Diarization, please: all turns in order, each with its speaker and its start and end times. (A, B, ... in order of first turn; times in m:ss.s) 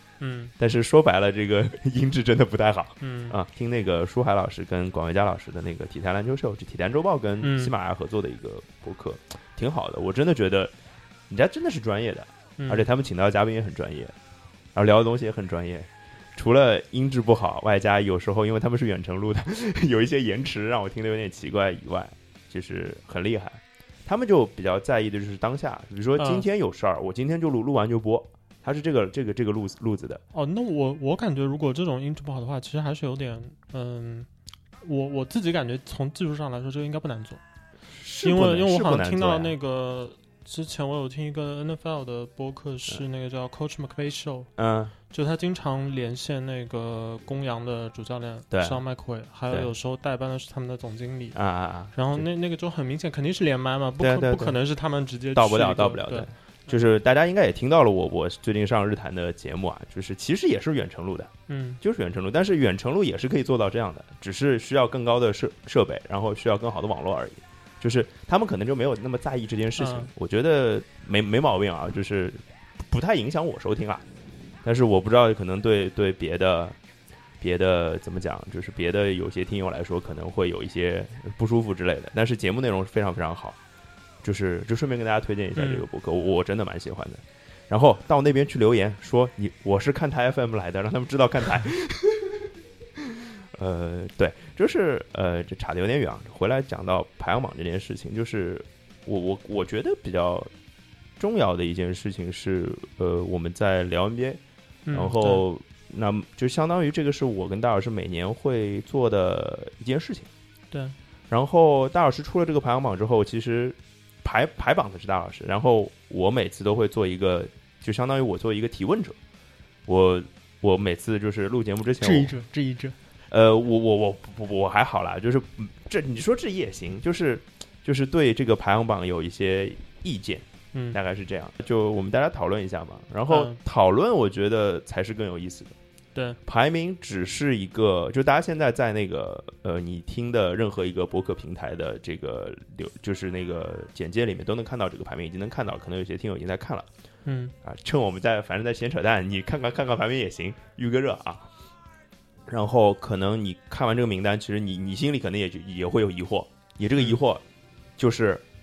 0:00.2-0:00.5 A
0:00.6-0:10.7 B
0:03.0-0:03.4 A
0:07.4-0:07.7 A
0:11.3-0:14.2 B
0:12.6-0:12.9 A
0:14.8-0:30.2 B
0:26.2-0:26.4 A
0:30.3-0:34.3 A
0:34.8-0:37.4 A
0:37.9-0:39.5 B
0:38.2-0:44.5 A
0:44.6-0:45.0 B
0:45.1-0:51.4 A
0:48.5-0:48.8 B
0:51.3-0:52.3 B
0:51.9-0:56.3 A
0:54.0-0:54.6 B
0:55.3-1:14.0 B
1:01.5-1:01.8 A
1:09.8-1:10.1 A
1:14.6-1:16.8 B
1:17.4-1:23.6 B
1:24.2-1:40.5 B
1:25.6-1:25.9 A
1:41.2-1:44.4 B
1:44.9-1:45.4 A
1:44.9-1:50.3 B
1:51.3-1:59.2 B
1:59.9-2:02.4 B
2:02.0-2:03.0 A
2:03.3-2:15.8 B
2:10.7-2:11.0 A
2:13.3-2:13.6 A
2:16.4-2:26.9 B
2:27.2-2:27.5 A
2:27.6-2:31.5 B
2:32.5-2:37.4 B
2:38.0-2:38.4 B